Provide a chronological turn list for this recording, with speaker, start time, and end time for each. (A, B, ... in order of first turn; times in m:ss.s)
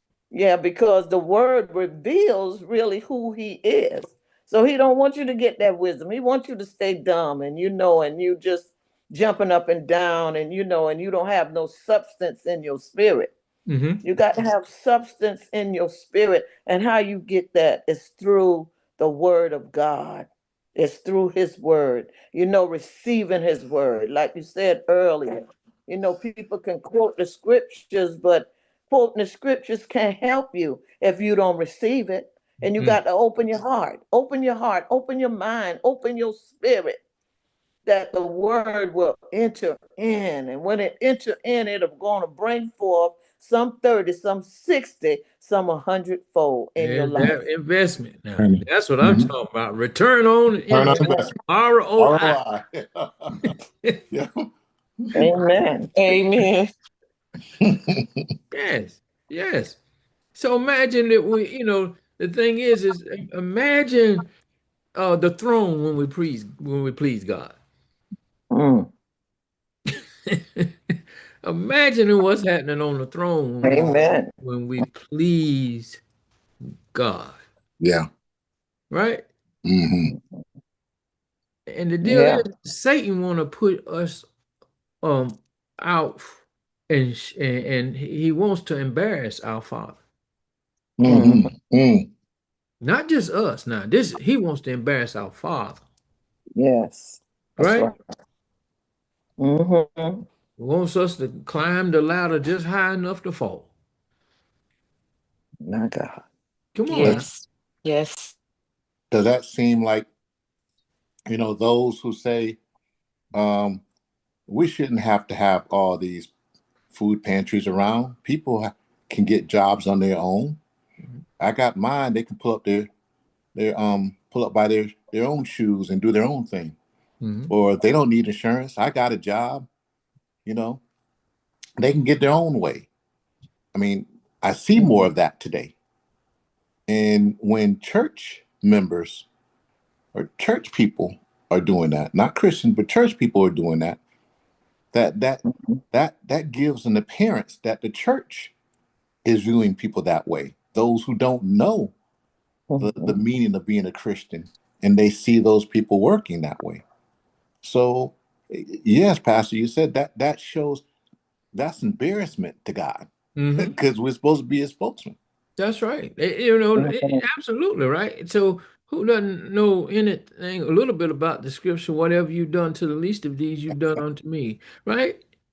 0:00.3-0:13.3 A
0:13.7-0:14.0 B
0:14.0-0:37.0 A
0:37.8-0:47.4 A
0:46.8-0:52.4 B
0:48.4-0:49.3 C
0:50.7-0:51.3 C
0:52.0-0:53.3 C
0:53.4-0:54.0 B
0:55.2-0:55.9 A
0:55.9-0:56.7 D
0:57.6-0:58.2 C
0:58.5-0:59.8 B
1:00.3-1:04.3 B
1:04.9-1:07.6 B
1:08.5-1:08.9 A
1:11.4-1:16.0 B
1:13.6-1:14.3 A
1:16.9-1:17.4 B
1:18.9-1:19.3 B
1:19.6-1:20.1 C
1:20.1-1:20.4 A
1:21.7-1:24.3 B
1:22.0-1:22.4 A
1:25.0-1:30.0 B
1:31.0-1:32.1 C
1:31.0-1:31.5 A
1:32.8-1:35.8 B
1:36.6-1:37.9 A
1:37.6-1:37.9 B
1:39.4-1:40.2 A
1:40.6-1:43.7 B
1:45.6-1:46.2 A
1:46.7-1:47.3 B
1:46.9-1:48.3 D
1:47.0-1:47.2 C
1:49.1-1:50.1 C
1:51.3-1:52.6 C
1:53.3-1:53.8 C
1:54.5-1:56.3 C
1:56.9-2:00.6 C
2:01.4-2:02.9 C
2:03.6-2:06.8 C
2:07.2-2:07.5 B
2:07.5-2:09.7 C
2:10.4-2:10.8 C
2:11.8-2:12.9 C
2:13.7-2:15.8 C
2:14.8-2:15.1 A
2:16.9-2:19.3 C
2:20.1-2:24.0 C
2:24.9-2:28.5 C
2:25.5-2:25.8 A
2:29.2-2:31.9 C
2:32.7-2:33.2 A
2:32.8-2:36.8 C
2:37.6-2:40.8 C
2:41.5-2:45.2 C
2:43.4-2:43.8 B
2:45.6-2:55.2 B
2:46.8-2:47.2 A